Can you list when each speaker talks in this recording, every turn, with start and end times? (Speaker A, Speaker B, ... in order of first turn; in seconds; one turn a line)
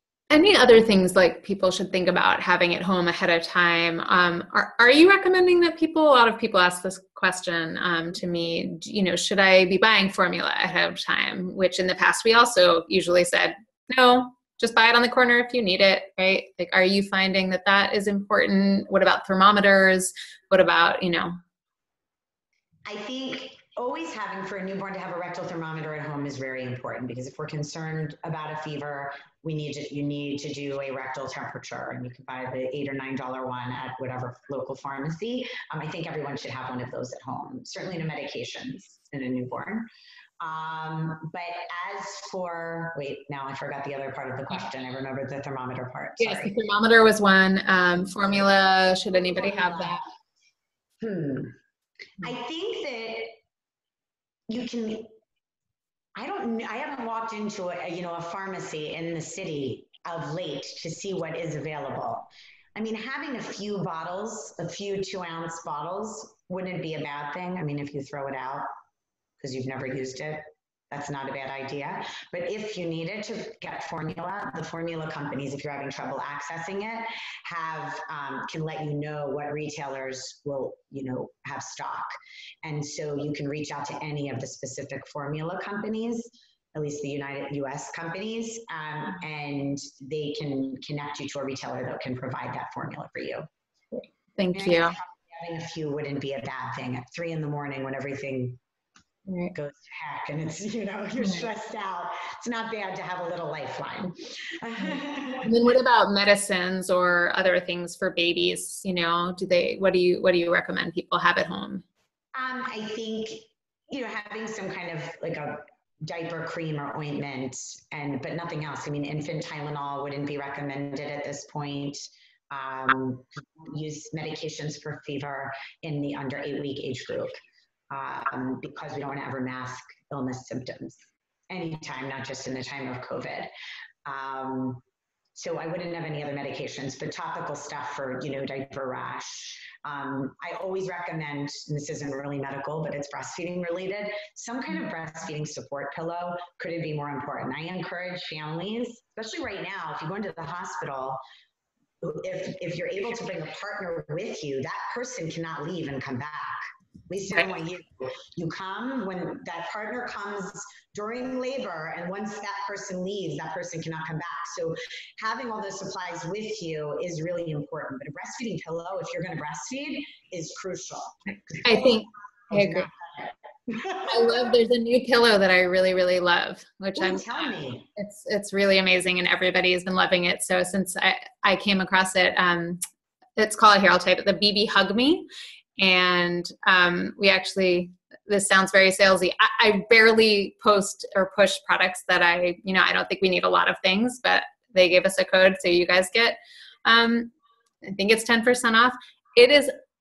Speaker A: 0.3-21.4
Speaker B: 22.9-39.9
Speaker B: 40.4-46.6
Speaker A: 46.2-50.0
Speaker B: 49.4-50.0
Speaker B: 51.0-51.6
Speaker B: 52.2-53.4
Speaker B: 54.5-55.1
Speaker B: 56.2-68.7
Speaker B: 69.4-82.1
Speaker B: 82.6-93.5
Speaker A: 93.9-95.0
Speaker B: 94.5-98.6
Speaker A: 99.3-99.5
Speaker B: 99.5-105.5
Speaker A: 101.2-101.5
Speaker A: 105.4-111.8
Speaker B: 112.3-127.4
Speaker B: 127.9-133.5
Speaker B: 134.1-134.8
Speaker B: 135.3-151.2
Speaker B: 152.0-172.0
Speaker A: 171.6-172.9
Speaker B: 172.5-174.5
Speaker A: 174.0-182.8
Speaker B: 177.0-177.9
Speaker A: 183.4-185.3
Speaker A: 185.8-197.3
Speaker A: 197.8-199.7